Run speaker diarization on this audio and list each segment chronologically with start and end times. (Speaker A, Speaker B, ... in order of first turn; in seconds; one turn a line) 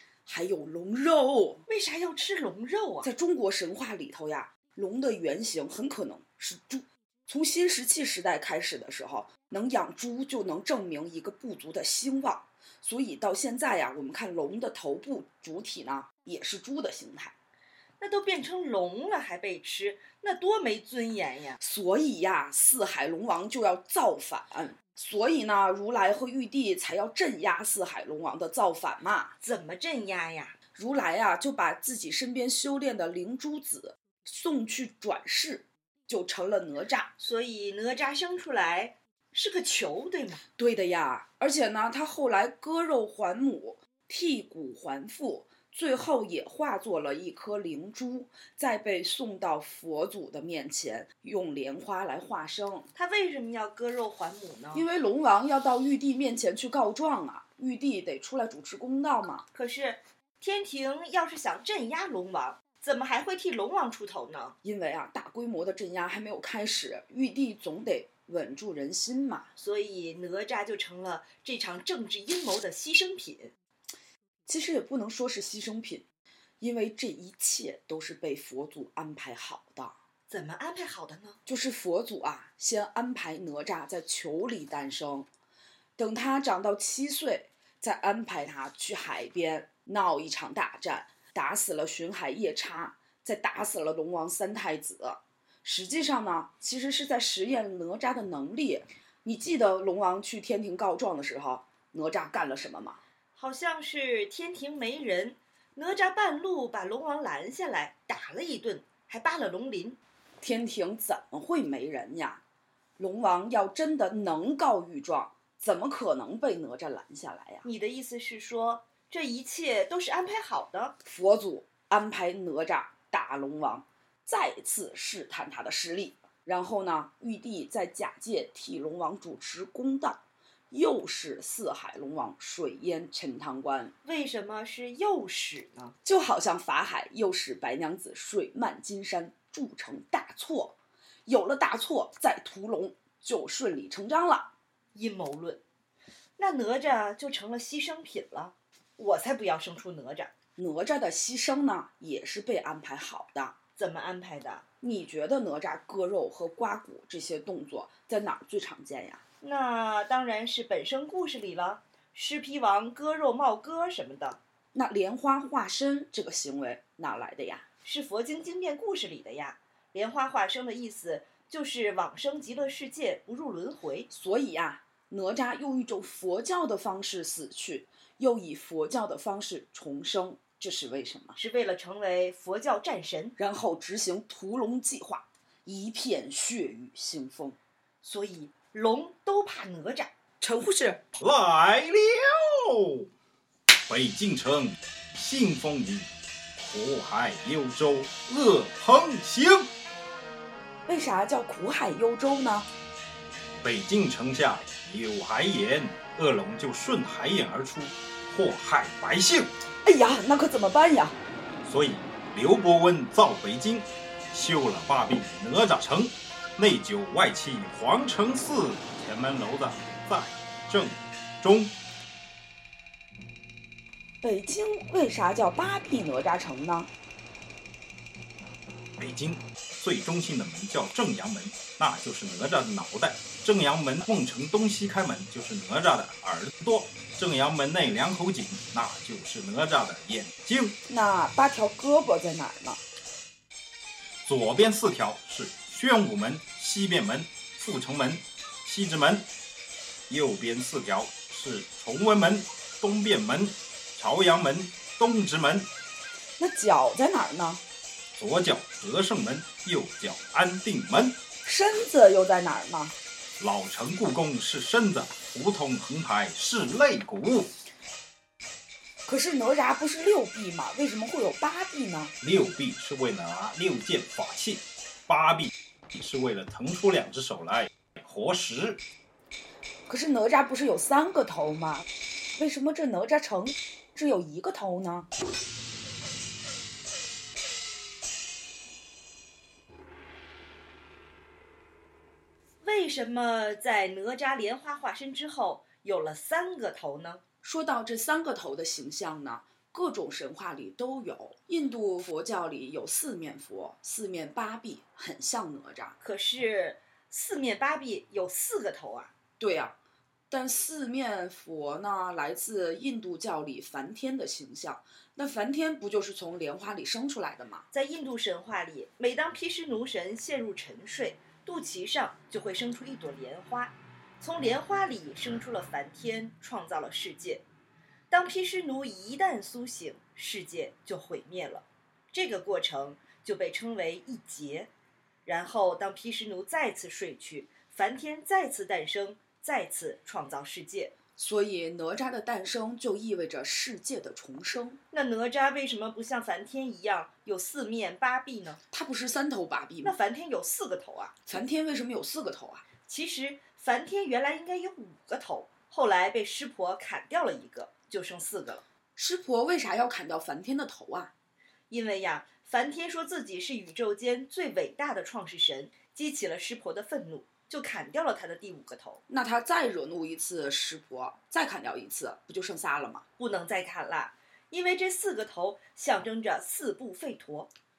Speaker A: 0.2-1.6
Speaker B: 1.7-3.1
Speaker A: 3.0-17.3
Speaker B: 18.0-21.6
Speaker A: 21.6-29.3
Speaker B: 29.4-30.6
Speaker A: 30.7-37.1
Speaker B: 37.2-40.4
Speaker A: 40.6-52.9
Speaker B: 52.9-54.8
Speaker A: 54.7-59.5
Speaker B: 59.5-64.5
Speaker A: 64.6-69.5
Speaker B: 69.5-73.5
Speaker A: 74.5-76.0
Speaker A: 76.6-80.0
Speaker B: 80.3-81.4
Speaker A: 81.5-85.3
Speaker A: 86.0-103.0
Speaker B: 103.3-110.0
Speaker A: 110.4-112.4
Speaker A: 113.0-117.6
Speaker B: 117.6-120.9
Speaker A: 121.0-133.9
Speaker B: 134.0-135.9
Speaker A: 136.0-144.5
Speaker B: 144.9-145.6
Speaker B: 146.4-150.3
Speaker A: 150.6-153.6
Speaker B: 153.8-154.6
Speaker A: 154.8-159.2
Speaker B: 159.4-164.4
Speaker A: 164.7-167.7
Speaker B: 167.8-174.1
Speaker A: 174.1-181.4
Speaker B: 181.3-183.3
Speaker A: 183.4-187.6
Speaker B: 188.0-190.1
Speaker A: 190.4-191.0
Speaker C: 191.2-193.1
Speaker C: 193.9-199.7
Speaker A: 200.8-202.7
Speaker C: 203.6-209.5
Speaker A: 209.8-211.2
Speaker C: 211.6-221.7
Speaker A: 224.2-226.9
Speaker C: 229.0-240.8
Speaker A: 240.9-242.8
Speaker C: 244.2-249.3
Speaker C: 250.1-255.7
Speaker A: 256.4-257.6
Speaker C: 258.1-261.2
Speaker A: 261.4-262.9
Speaker C: 263.4-267.5
Speaker A: 269.1-272.1
Speaker C: 272.2-278.8
Speaker A: 279.9-285.1
Speaker B: 292.6-297.2
Speaker A: 297.4-305.9
Speaker B: 306.0-309.1
Speaker A: 309.4-309.8
Speaker A: 310.3-317.6
Speaker B: 317.7-327.4
Speaker B: 328.1-334.7
Speaker B: 335.2-340.9
Speaker A: 341.1-344.8
Speaker B: 344.9-348.6
Speaker A: 348.7-349.9
Speaker B: 349.8-351.1
Speaker A: 351.2-352.6
Speaker B: 352.9-358.6
Speaker A: 358.9-361.1
Speaker B: 361.7-369.0
Speaker A: 369.1-373.0
Speaker B: 373.2-377.5